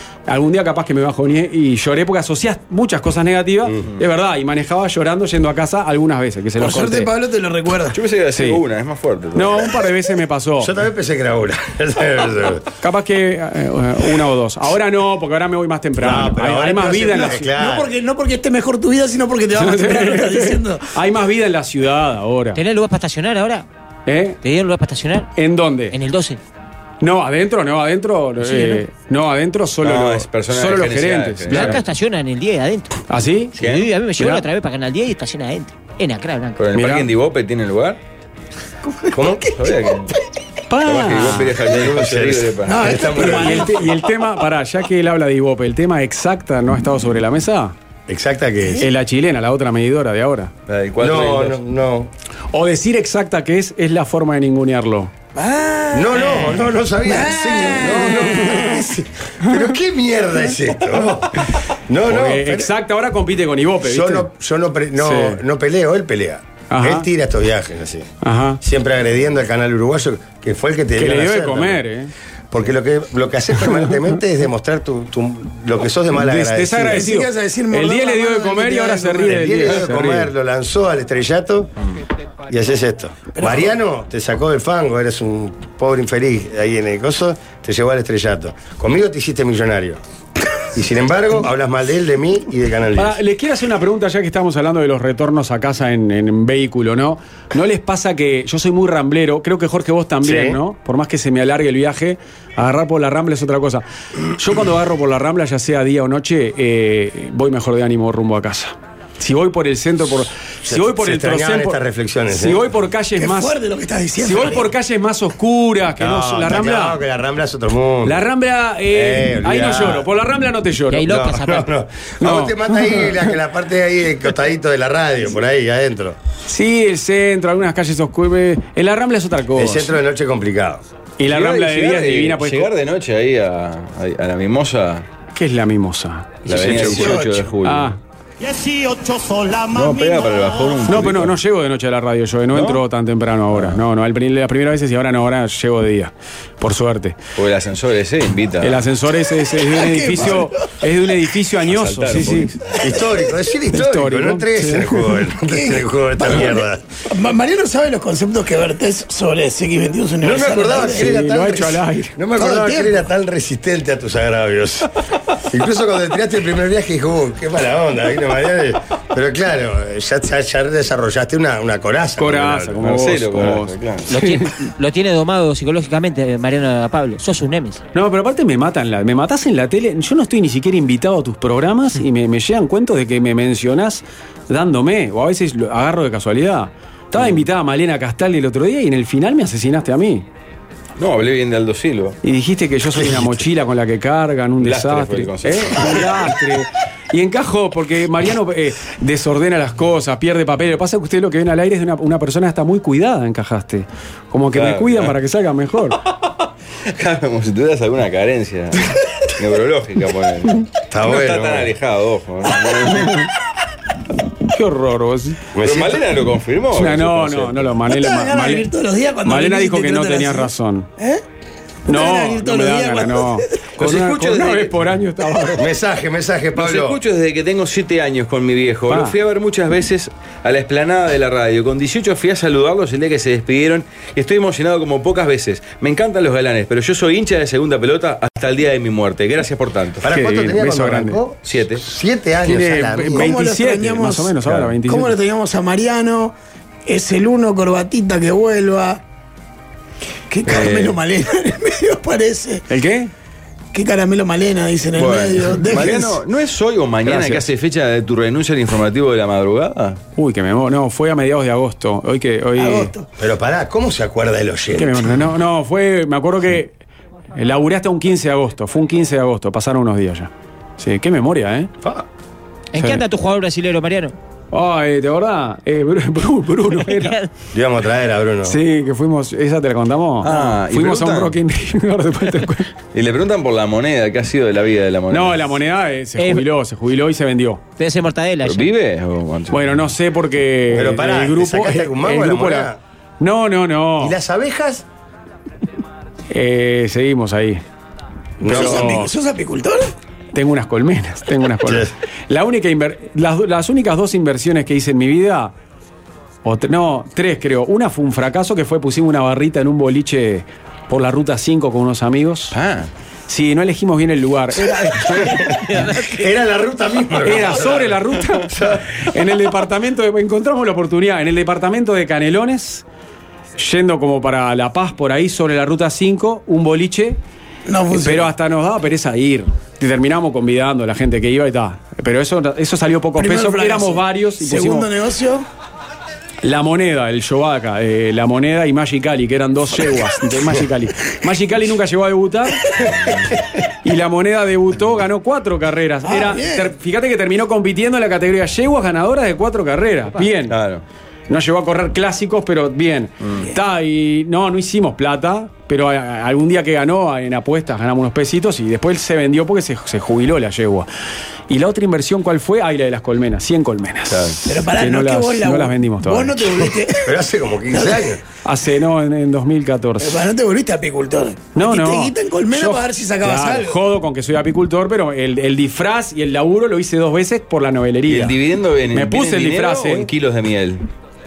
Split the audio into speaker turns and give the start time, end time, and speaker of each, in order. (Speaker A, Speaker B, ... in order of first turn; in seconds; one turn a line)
Speaker A: 0.3-7.1
Speaker B: 6.6-8.0
Speaker C: 7.9-9.8
Speaker A: 8.3-8.6
Speaker A: 9.3-10.7
Speaker D: 10.6-12.7
Speaker A: 12.8-17.5
Speaker D: 16.0-17.9
Speaker B: 17.1-20.9
Speaker A: 19.5-22.6
Speaker E: 22.5-23.6
Speaker A: 24.1-24.4
Speaker E: 24.4-25.3
Speaker A: 25.4-25.9
Speaker E: 25.9-26.4
Speaker A: 27.0-31.8
Speaker E: 28.4-28.8
Speaker C: 29.8-31.8
Speaker E: 31.5-33.0
Speaker A: 33.1-33.5
Speaker C: 33.6-33.9
Speaker E: 33.6-36.6
Speaker A: 34.2-34.4
Speaker C: 36.6-38.0
Speaker A: 36.7-37.1
Speaker D: 39.1-39.6
Speaker C: 39.5-40.1
Speaker A: 40.7-41.5
Speaker C: 40.8-42.9
Speaker D: 41.6-43.7
Speaker B: 42.6-43.9
Speaker A: 43.0-47.7
Speaker D: 48.1-48.9
Speaker A: 48.8-50.5
Speaker C: 50.7-51.6
Speaker D: 51.0-52.1
Speaker A: 52.5-55.1
Speaker B: 55.3-58.8
Speaker D: 55.9-61.3
Speaker D: 61.9-62.7
Speaker A: 62.0-64.3
Speaker D: 63.8-68.1
Speaker A: 65.0-65.4
Speaker A: 66.7-67.1
Speaker A: 68.2-68.6
Speaker D: 68.6-71.8
Speaker A: 71.0-72.1
Speaker D: 72.5-77.0
Speaker A: 76.1-80.3
Speaker B: 76.9-79.5
Speaker D: 79.2-81.7
Speaker D: 82.5-90.0
Speaker B: 83.3-83.7
Speaker D: 90.7-93.2
Speaker A: 92.9-103.8
Speaker D: 100.2-100.6
Speaker A: 104.3-113.5
Speaker D: 110.6-112.7
Speaker B: 113.2-114.7
Speaker A: 114.2-117.0
Speaker D: 116.0-118.2
Speaker A: 118.0-121.1
Speaker D: 118.9-120.1
Speaker E: 120.9-121.7
Speaker D: 121.0-126.2
Speaker A: 122.2-123.3
Speaker A: 126.5-129.9
Speaker D: 129.5-130.8
Speaker A: 131.2-132.7
Speaker C: 131.3-135.1
Speaker A: 135.3-138.0
Speaker C: 136.4-137.9
Speaker B: 136.8-137.5
Speaker C: 139.6-141.4
Speaker A: 140.8-147.2
Speaker C: 142.5-142.8
Speaker C: 143.5-143.8
Speaker C: 147.3-148.9
Speaker A: 148.6-152.5
Speaker B: 149.7-150.5
Speaker C: 151.6-152.8
Speaker D: 152.8-156.8
Speaker A: 153.7-155.1
Speaker B: 155.5-161.1
Speaker D: 160.2-164.9
Speaker A: 160.8-162.2
Speaker B: 162.4-163.0
Speaker D: 165.5-172.8
Speaker A: 172.2-174.4
Speaker C: 172.8-174.1
Speaker E: 174.1-177.8
Speaker A: 177.9-190.2
Speaker C: 187.1-187.4
Speaker C: 191.0-192.2
Speaker A: 192.2-206.0
Speaker D: 193.0-193.3
Speaker C: 194.6-196.3
Speaker C: 204.5-205.2
Speaker C: 206.9-213.3
Speaker D: 210.9-211.7
Speaker A: 214.5-215.4
Speaker D: 215.5-216.0
Speaker C: 215.6-217.8
Speaker A: 216.7-218.7
Speaker B: 217.8-221.2
Speaker A: 219.2-220.9
Speaker A: 221.9-225.7
Speaker B: 221.9-223.6
Speaker C: 223.8-224.9
Speaker D: 225.5-227.0
Speaker C: 226.6-240.1
Speaker A: 228.9-229.2
Speaker D: 240.0-243.3
Speaker A: 240.1-241.2
Speaker C: 241.4-241.8
Speaker A: 242.4-245.1
Speaker B: 243.1-246.3
Speaker C: 244.4-244.8
Speaker B: 246.8-249.0
Speaker B: 250.3-252.7
Speaker C: 250.4-251.0
Speaker A: 252.7-253.1
Speaker B: 253.7-256.2
Speaker C: 255.0-260.0
Speaker A: 257.0-257.4
Speaker A: 260.2-262.9
Speaker B: 262.6-263.1
Speaker D: 263.2-265.1
Speaker A: 264.7-266.7
Speaker A: 267.3-271.7
Speaker E: 272.7-274.1
Speaker A: 272.8-273.0
Speaker A: 274.5-277.2
Speaker E: 276.7-277.3
Speaker D: 277.5-278.6
Speaker A: 278.4-282.7
Speaker C: 280.2-281.4
Speaker C: 282.9-285.6
Speaker A: 285.1-287.6
Speaker E: 286.2-286.4
Speaker E: 287.8-288.7
Speaker C: 288.4-289.9
Speaker A: 289.5-294.2
Speaker D: 290.7-292.8
Speaker D: 294.0-294.8
Speaker A: 296.3-297.6
Speaker D: 298.4-298.9
Speaker A: 298.4-299.1
Speaker B: 298.4-299.9
Speaker A: 300.3-305.5
Speaker D: 301.6-301.9
Speaker A: 306.4-312.6
Speaker C: 312.5-312.9
Speaker A: 313.3-315.4
Speaker D: 315.2-315.5
Speaker E: 315.4-316.2
Speaker D: 316.0-318.0
Speaker A: 317.2-322.8
Speaker D: 318.5-318.8
Speaker A: 323.6-327.2
Speaker B: 327.6-328.3
Speaker A: 327.9-334.9
Speaker B: 333.2-335.5
Speaker A: 336.4-342.7
Speaker A: 343.8-350.6
Speaker B: 346.0-346.7
Speaker C: 350.5-350.8
Speaker A: 351.3-360.9
Speaker A: 361.5-366.4
Speaker C: 364.1-364.4
Speaker B: 364.4-367.1
Speaker D: 367.0-368.2
Speaker B: 367.7-368.1
Speaker A: 368.4-370.2
Speaker B: 370.0-373.8
Speaker A: 371.5-378.4
Speaker C: 378.1-380.8
Speaker A: 378.9-380.1